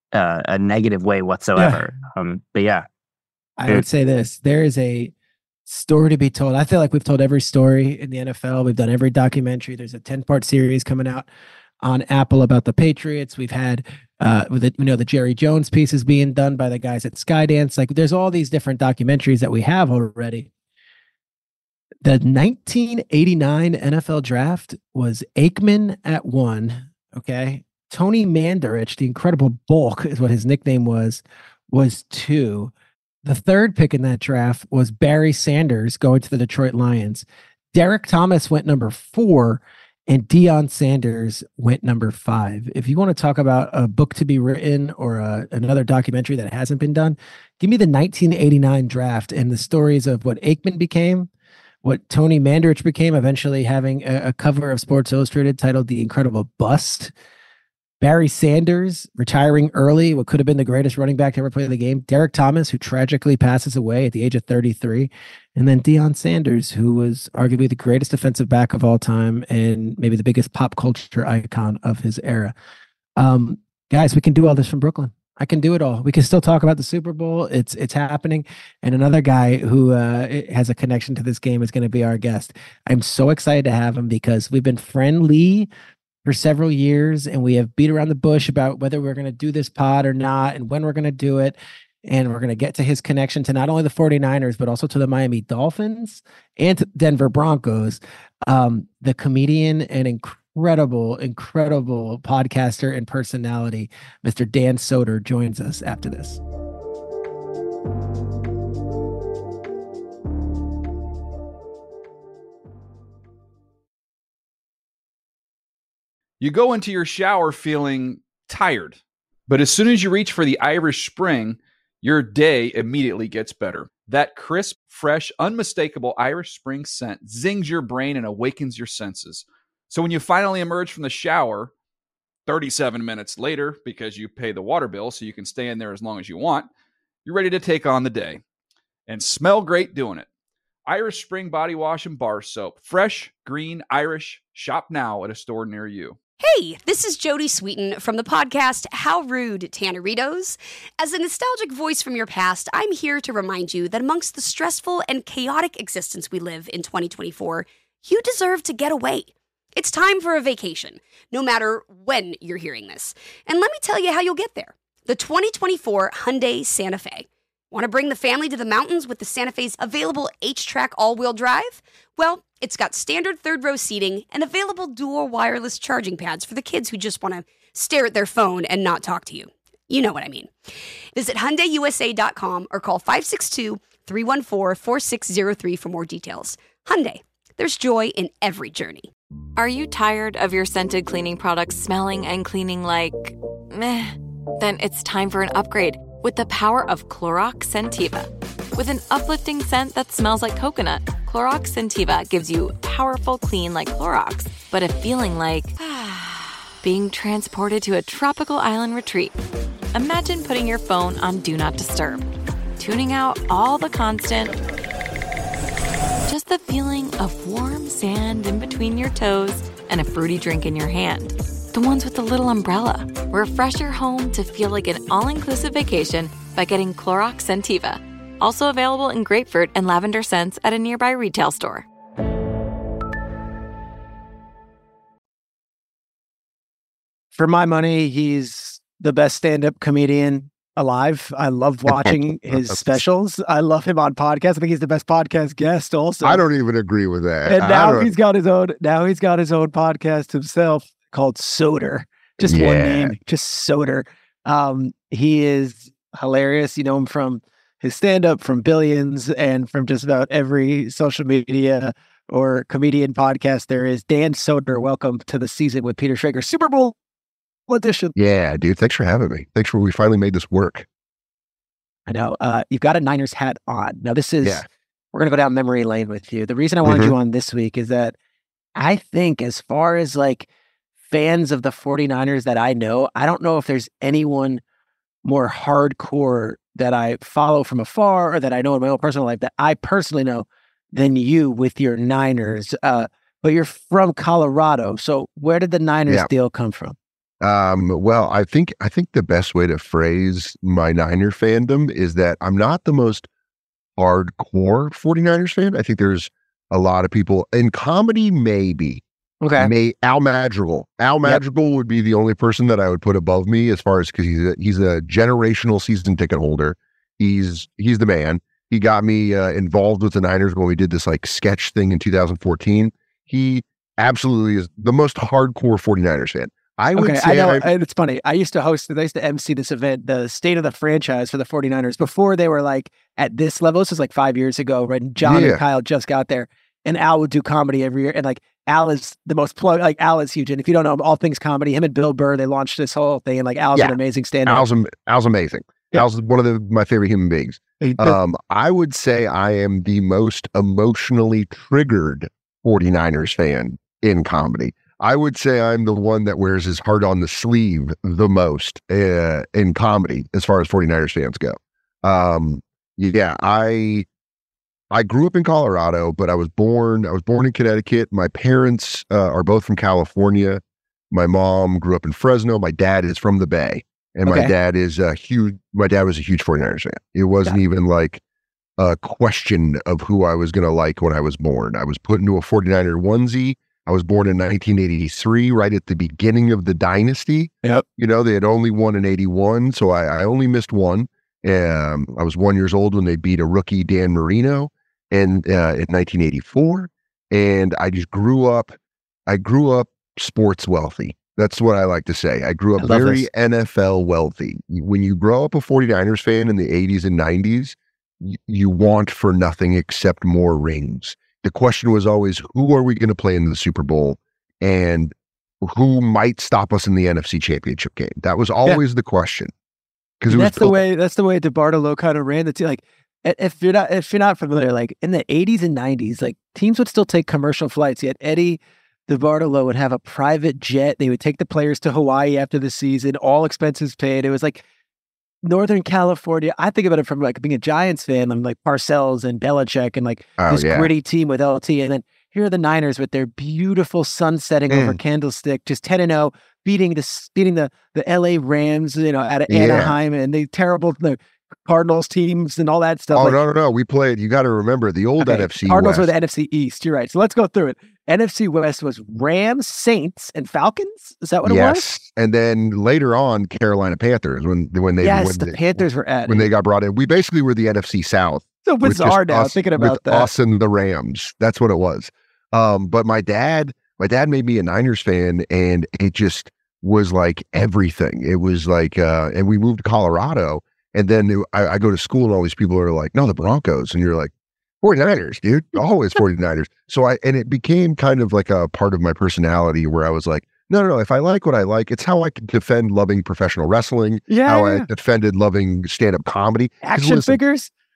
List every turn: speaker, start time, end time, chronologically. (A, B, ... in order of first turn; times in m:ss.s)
0:00.1-0:02.9 A
0:01.6-0:01.8 B
0:03.6-0:05.1 B
0:05.7-0:11.3 B
0:11.8-0:20.5 B
0:22.0-0:32.7 B
0:33.2-0:51.3 B
0:51.8-0:57.1 B
0:58.0-1:12.5 B
1:13.2-1:25.7 B
1:26.2-1:46.4 B
1:56.4-2:11.7 C
2:12.5-2:16.7 C
2:17.2-2:18.4 C
2:19.1-2:20.3 C
2:20.9-2:26.2 C
2:26.4-3:00.5 D
3:01.1-3:09.1 D
3:09.6-3:29.4 E
3:29.9-3:32.3 E
3:32.8-3:34.6 E
3:36.3-3:51.8 E
3:57.3-4:06.4 B
4:01.9-4:03.0 F
4:06.2-4:08.1 F
4:07.5-4:27.0 B
4:12.4-4:13.2 F
4:27.7-4:28.2 B
4:28.2-4:30.9 F
4:32.1-4:38.2 B
4:36.8-4:37.1 F
4:38.8-4:40.5 B
4:41.1-4:44.6 B
4:45.2-4:57.0 B
4:57.4-5:03.3 F
5:04.0-5:09.0 F
5:09.4-5:09.7 B
5:09.6-5:27.7 F
5:27.0-5:44.6 B
5:35.2-5:35.6 F
5:43.8-6:04.1 F
5:47.8-5:48.2 B
6:04.9-6:18.2 F
6:14.3-6:14.5 B
6:18.8-6:59.5 F
6:42.8-6:43.3 B
7:00.2-7:00.8 F
7:00.3-7:14.6 B
7:15.4-7:33.4 B
7:20.4-7:20.9 F
7:24.7-7:25.0 F
7:29.5-7:30.0 F
7:33.1-7:36.1 F
7:35.2-7:41.9 B
7:41.4-8:17.4 F
7:45.0-7:46.5 B
7:48.7-7:50.3 B
8:14.3-8:14.9 B
8:16.8-8:17.7 B